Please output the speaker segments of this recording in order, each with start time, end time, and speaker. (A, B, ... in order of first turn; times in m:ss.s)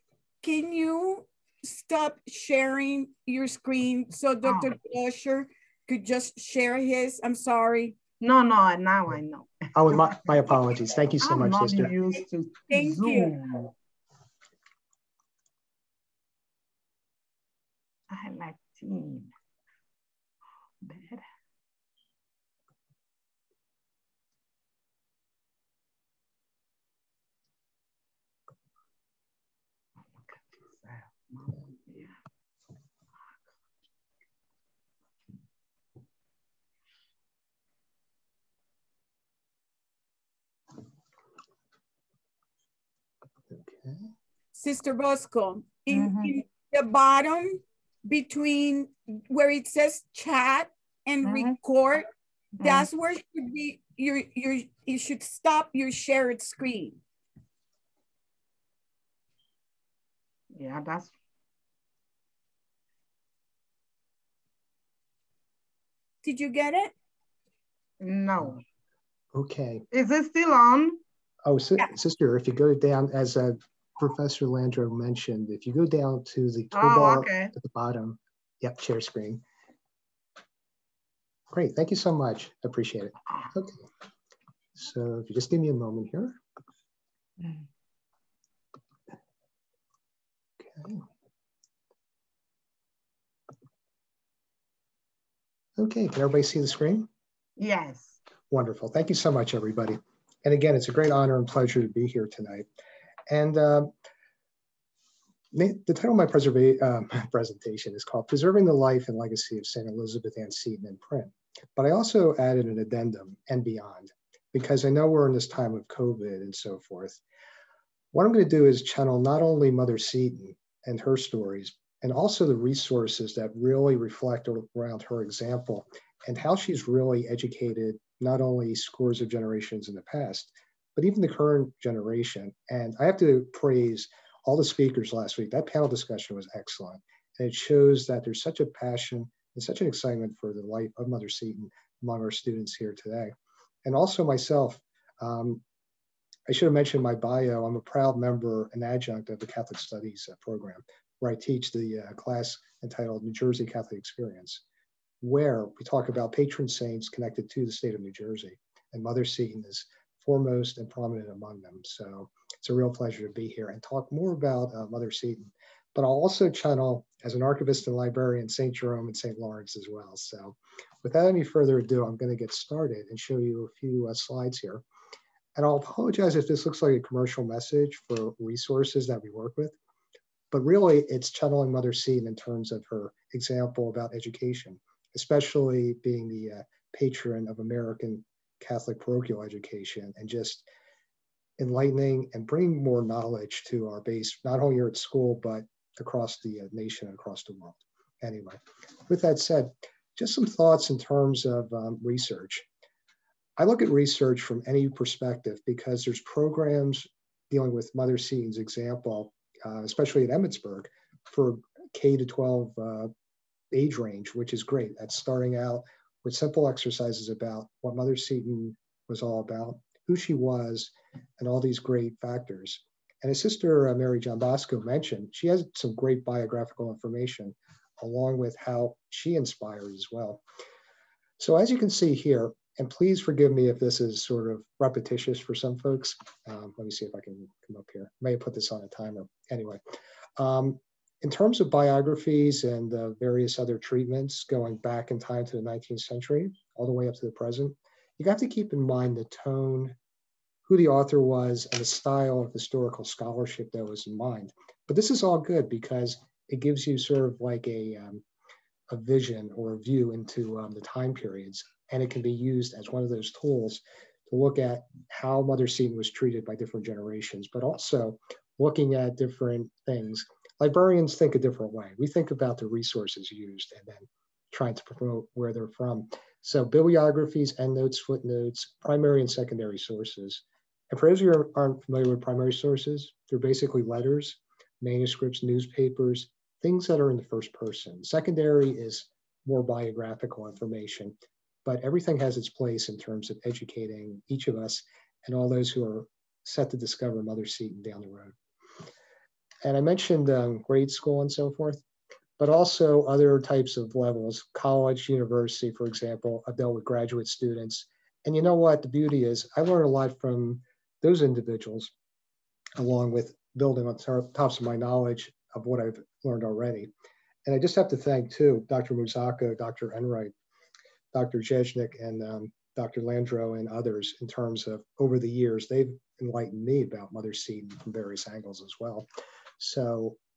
0:00.4-0:07.9 A
0:04.4-0:04.7 B
0:08.2-0:10.3 B
0:09.7-0:11.9 C
0:11.2-0:13.7 B
0:12.7-0:13.3 A
0:18.1-0:19.3 B
0:20.8-0:21.2 B
0:30.2-0:32.2 B
0:43.5-0:44.0 C
0:44.5-0:52.1 A
0:45.9-0:46.4 B
0:51.2-0:51.5 B
0:52.6-0:52.9 B
0:52.6-0:57.0 A
1:00.5-1:01.1 B
1:06.2-1:06.9 A
1:08.0-1:08.6 B
1:09.3-1:09.8 C
1:09.9-1:11.0 B
1:11.4-1:19.4 C
1:16.7-1:17.5 B
1:21.5-1:23.8 C
1:24.8-1:26.4 C
1:30.6-1:31.0 C
1:35.8-1:37.1 C
1:37.6-1:38.2 B
1:38.5-1:42.6 C
1:43.3-1:43.9 C
1:45.5-1:57.2 C
1:58.1-2:25.6 C
2:26.5-2:34.6 C
2:35.2-2:54.8 C
2:55.6-2:59.8 C
3:00.5-3:10.6 C
3:11.6-3:22.6 C
3:23.6-3:33.1 C
3:33.7-3:50.4 C
3:51.4-3:59.8 C
4:00.4-4:10.0 C
4:10.6-4:18.2 C
4:18.9-4:58.3 C
4:59.6-5:01.8 C
5:02.4-5:11.9 C
5:12.8-5:16.9 C
5:17.4-5:20.3 C
5:21.1-5:29.1 C
5:29.6-5:30.2 C